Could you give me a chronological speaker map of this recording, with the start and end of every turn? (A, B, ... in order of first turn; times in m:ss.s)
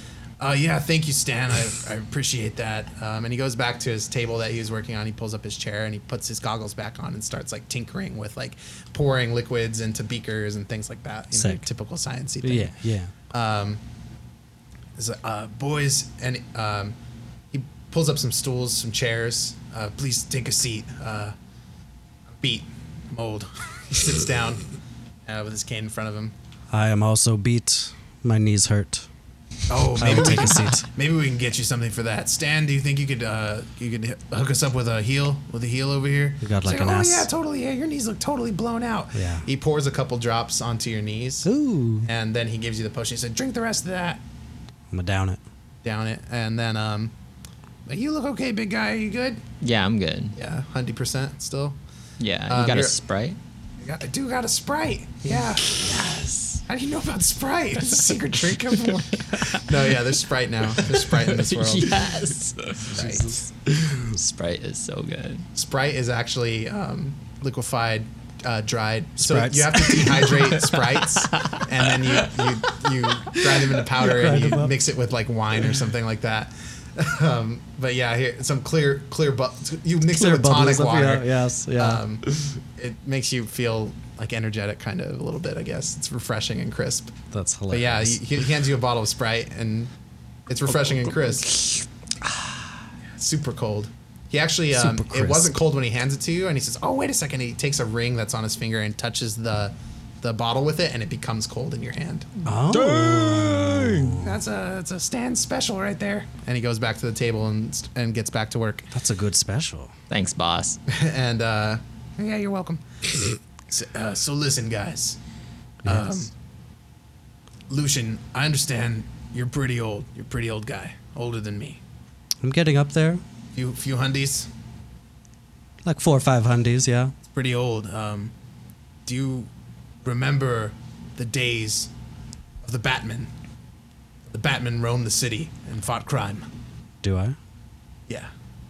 0:00.4-0:12.7 A
0:11.3-0:11.7 B
0:12.4-0:13.1 B
0:13.3-0:13.8 A
0:15.0-0:17.0 A
0:17.5-0:21.4 A
0:22.3-0:24.6 A
0:25.3-0:26.3 A
0:26.7-0:29.1 B
0:29.7-0:41.5 A
0:30.0-0:30.8 B
0:36.4-0:37.3 B
0:39.1-0:39.4 B
0:41.4-0:42.1 B
0:42.0-0:44.2 A
0:44.9-0:45.4 B
0:45.8-0:47.1 A
0:47.9-0:49.4 A
0:49.6-0:50.4 C
0:50.4-0:51.8 A
0:52.2-0:53.4 C
0:52.5-0:53.0 A
0:53.8-0:55.9 A
0:55.7-0:56.6 C
0:56.7-1:02.0 A
1:01.2-1:03.0 C
1:02.8-1:03.4 A
1:02.9-1:04.2 B
1:04.2-1:05.4 C
1:05.6-1:27.2 A
1:09.2-1:10.5 B
1:11.2-1:11.6 C
1:13.3-1:14.8 B
1:20.0-1:22.0 B
1:27.3-1:28.2 B
1:27.7-1:29.9 A
1:30.5-1:31.6 A
1:33.2-1:48.9 A
1:34.7-1:35.5 B
1:42.4-1:44.4 B
1:48.9-1:49.9 B
1:50.1-1:50.8 C
1:50.9-1:52.8 A
1:53.7-1:55.2 A
1:55.8-1:56.2 B
1:55.8-1:56.3 A
1:57.7-2:01.8 A
2:02.4-2:03.2 B
2:03.6-2:04.5 A
2:05.8-2:07.1 B
2:07.3-2:08.3 A
2:09.0-2:09.5 A
2:10.0-2:11.9 A
2:12.6-2:13.3 A
2:14.3-2:16.5 A
2:17.0-2:17.4 B